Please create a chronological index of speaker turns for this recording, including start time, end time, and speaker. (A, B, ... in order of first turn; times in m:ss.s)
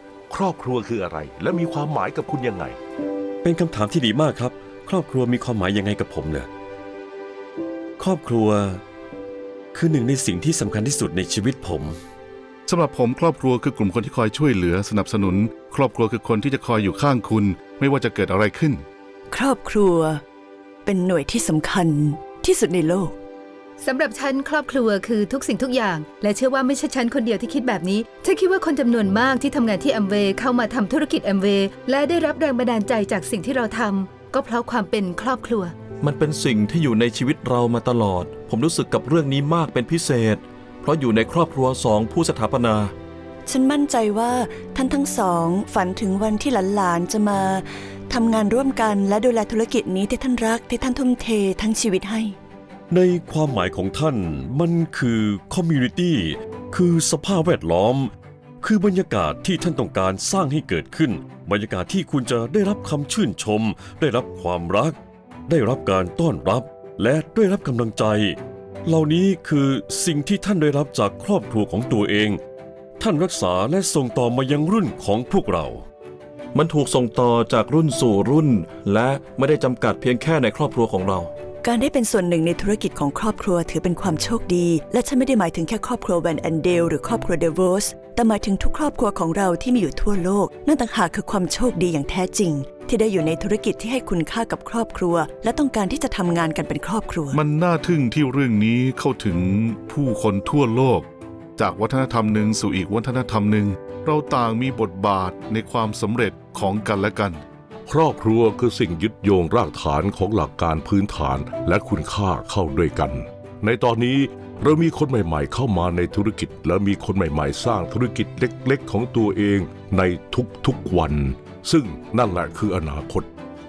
0:00.3-0:02.8 A
0:03.4-0:06.5 B
0:08.0-0:08.8 B
0:09.7-0:12.0 B
0:12.7-0:18.8 C
0:19.3-0:20.2 D
0:20.8-0:23.2 D
0:23.8-0:35.8 E
0:36.0-0:42.9 F
0:43.5-0:52.4 D
0:52.9-1:12.4 B
1:13.0-1:15.8 B
1:16.5-1:21.3 F
1:21.6-1:37.4 D
1:37.3-1:47.4 C
1:47.9-2:03.3 A